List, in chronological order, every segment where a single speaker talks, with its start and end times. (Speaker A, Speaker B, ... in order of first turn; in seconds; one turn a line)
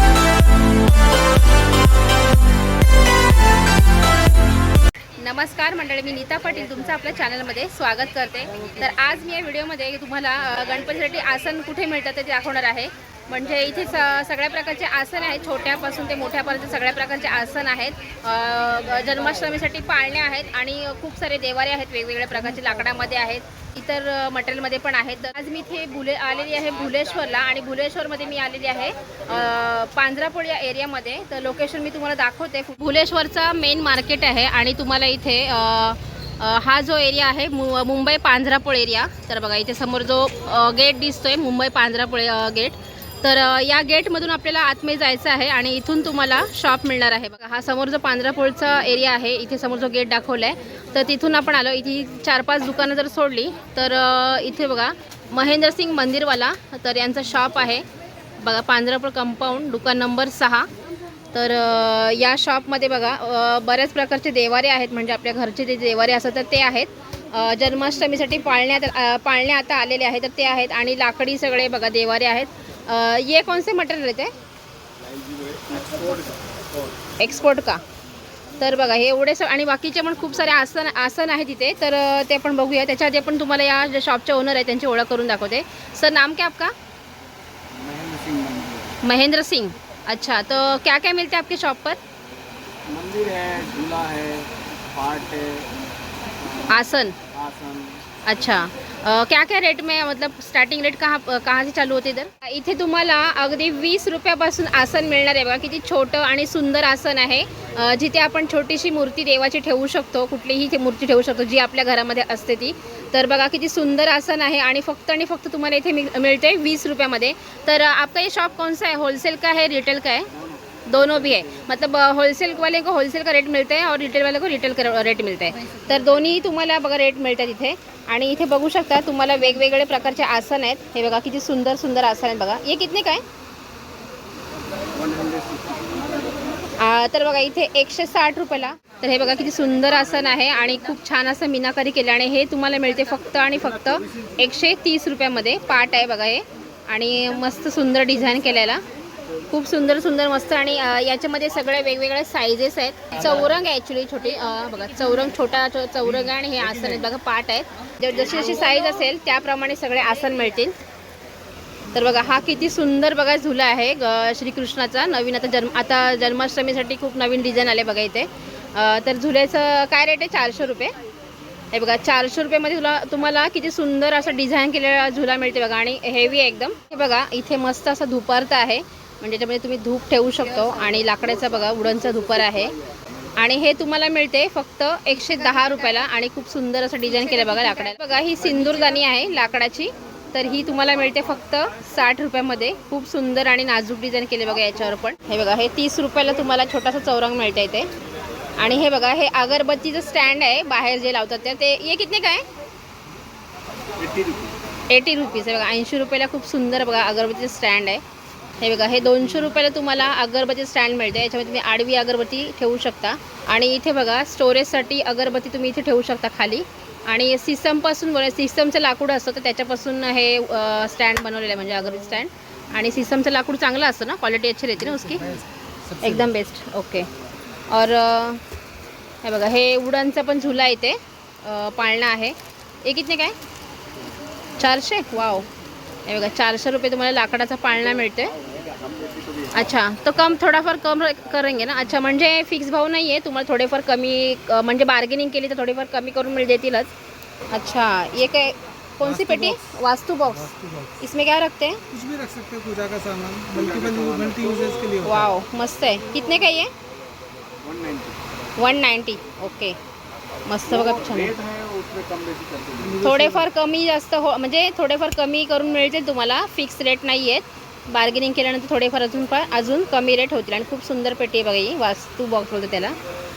Speaker A: 5.2-57.9
Speaker A: 58.4-60.7
Speaker A: 61.3-74.3
Speaker B: 75.5-76.5
Speaker A: 77.2-77.8
Speaker A: 78.6-86.7
Speaker B: 87.7-88.9
Speaker A: 89.0-92.0
Speaker B: 92.9-95.7
Speaker B: 96.4-96.7
Speaker A: 96.7-97.2
Speaker B: 97.3-98.0
Speaker A: 98.2-120.3
Speaker A: 120.9-133.2
Speaker B: 134.9-136.0
Speaker A: 136.8-148.8
Speaker A: 149.5-160.8
Speaker A: 161.9-170.9
Speaker A: 171.7-182.7
Speaker A: 183.4-197.9
Speaker A: 198.6-202.4
Speaker B: 204.0-204.6
Speaker A: 204.9-208.0
Speaker A: 208.6-225.4
Speaker C: 225.2-226.1
Speaker A: 226.0-227.1
Speaker A: 227.7-228.4
Speaker A: 229.2-233.4
Speaker A: 234.6-235.5
Speaker A: 236.1-238.4
Speaker B: 238.4-239.5
Speaker A: 239.5-246.9
Speaker A: 247.5-251.8
Speaker C: 249.1-249.7
Speaker C: 250.5-251.0
Speaker C: 251.9-255.2
Speaker B: 253.7-254.8
Speaker A: 255.0-256.7
Speaker B: 257.6-258.2
Speaker A: 258.6-259.8
Speaker A: 260.5-261.3
Speaker B: 261.3-263.0
Speaker C: 262.9-263.3
Speaker A: 263.0-273.0